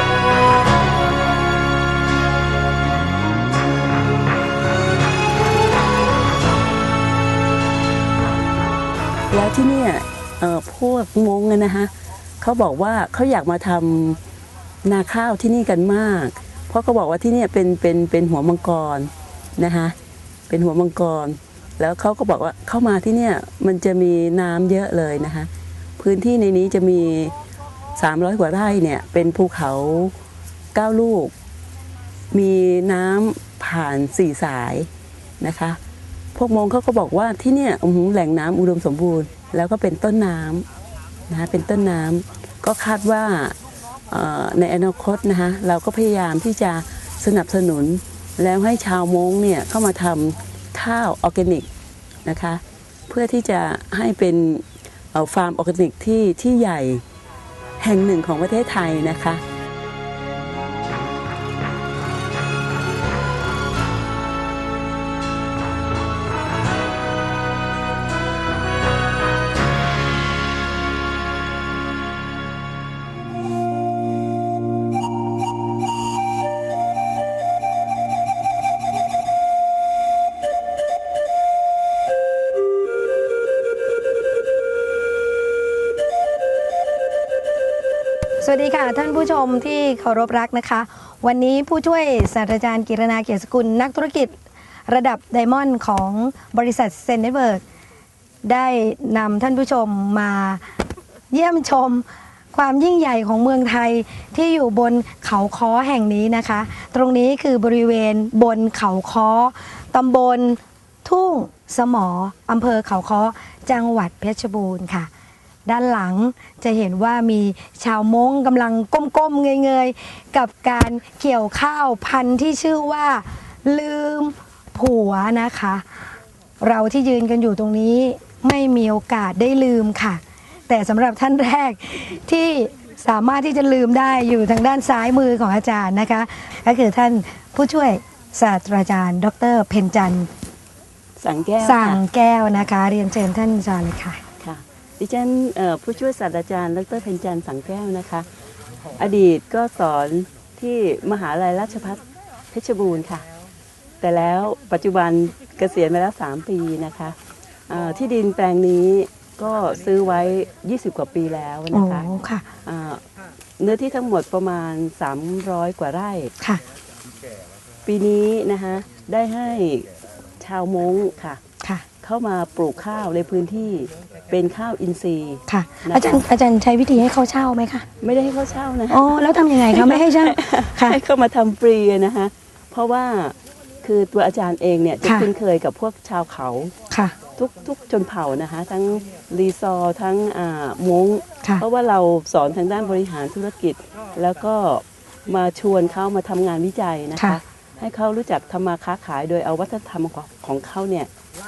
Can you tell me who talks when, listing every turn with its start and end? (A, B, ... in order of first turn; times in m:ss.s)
0:09.3-0:14.2 A
0:14.8-0:20.0 A
0:20.5-0:27.3 A
0:28.0-0:30.1 A
0:30.7-0:31.3 A
0:32.3-0:34.9 A
0:35.4-0:35.8 A
0:36.3-0:40.6 A
0:41.3-0:43.5 A
0:44.1-0:51.7 A
0:52.2-0:57.0 A
0:57.8-0:59.4 A
1:28.4-1:34.3 B
1:34.9-1:37.6 B
1:38.4-1:40.6 B
1:41.3-1:55.1 B
1:55.7-2:05.8 B
2:06.6-2:20.3 B
2:21.2-2:22.0 A
2:21.6-2:24.2 B
2:24.4-2:28.2 A
2:29.0-2:32.0 A
2:32.5-2:33.2 A
2:34.0-2:37.2 A
2:37.7-2:42.1 A
2:41.7-2:42.4 B
2:42.6-2:43.0 A
2:43.6-2:46.3 A
2:47.8-2:49.9 A
2:50.4-2:51.4 A
2:52.0-2:56.2 A
2:55.5-2:57.8 B
2:58.0-3:06.7 A
2:58.9-3:01.0 B
3:05.0-3:05.3 B
3:07.4-3:21.1 A